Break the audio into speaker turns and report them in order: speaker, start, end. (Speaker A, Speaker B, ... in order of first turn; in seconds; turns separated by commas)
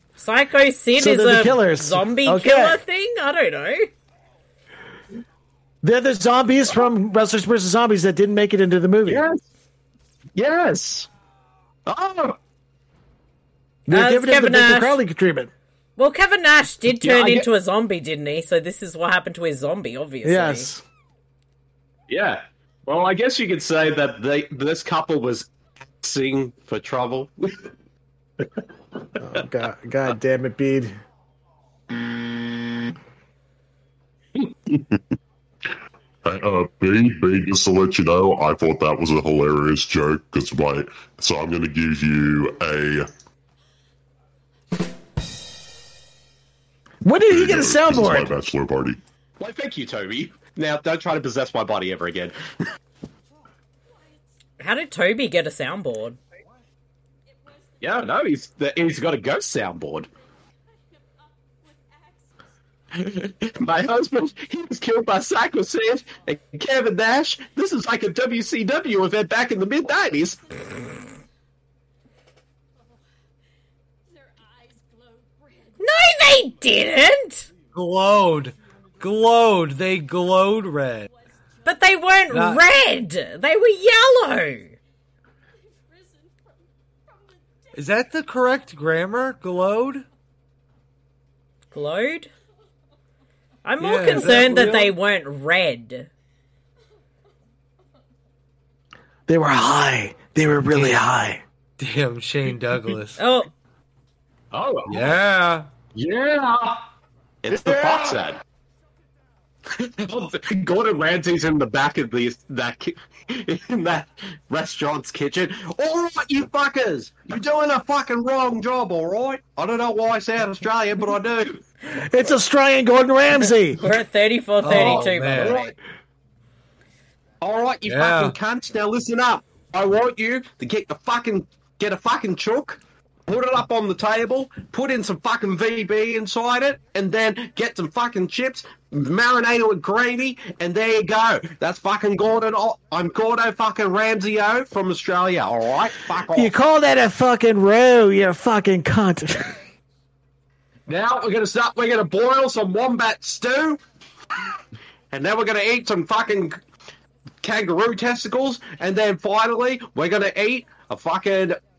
Speaker A: 0.2-3.9, Speaker B: 1.0-2.8, Speaker B: 5.8-9.2, Speaker C: 9.1-9.4, Speaker C: 10.4-11.1, Speaker C: 11.9-12.4, Speaker B: 13.9-15.5, Speaker A: 13.9-15.0, Speaker A: 16.0-20.7, Speaker C: 17.0-17.5, Speaker B: 20.2-20.8, Speaker C: 22.1-25.5, Speaker C: 26.0-27.7, Speaker B: 29.2-31.0, Speaker D: 36.2-43.1, Speaker B: 47.0-48.3, Speaker D: 47.3-49.0, Speaker C: 49.4-52.4, Speaker A: 54.6-56.2, Speaker C: 57.8-60.1, Speaker C: 63.0-70.4, Speaker A: 75.8-77.5, Speaker E: 77.7-81.1, Speaker A: 81.7-84.8, Speaker E: 82.3-82.6, Speaker E: 87.7-90.0, Speaker A: 91.7-92.3, Speaker A: 93.7-96.1, Speaker E: 93.8-94.9, Speaker B: 99.3-101.4, Speaker E: 100.7-101.0, Speaker E: 101.8-103.2, Speaker A: 103.2-103.5, Speaker C: 104.5-105.2, Speaker E: 104.9-105.7, Speaker C: 106.0-106.8, Speaker C: 107.4-108.4, Speaker B: 107.5-108.2, Speaker C: 109.7-121.6, Speaker B: 121.9-123.8, Speaker A: 123.8-125.7, Speaker E: 124.6-125.6, Speaker C: 124.7-125.7, Speaker C: 127.4-146.5, Speaker E: 127.8-128.4, Speaker B: 146.3-149.6, Speaker C: 150.9-153.8, Speaker C: 155.1-156.6, Speaker C: 157.4-161.6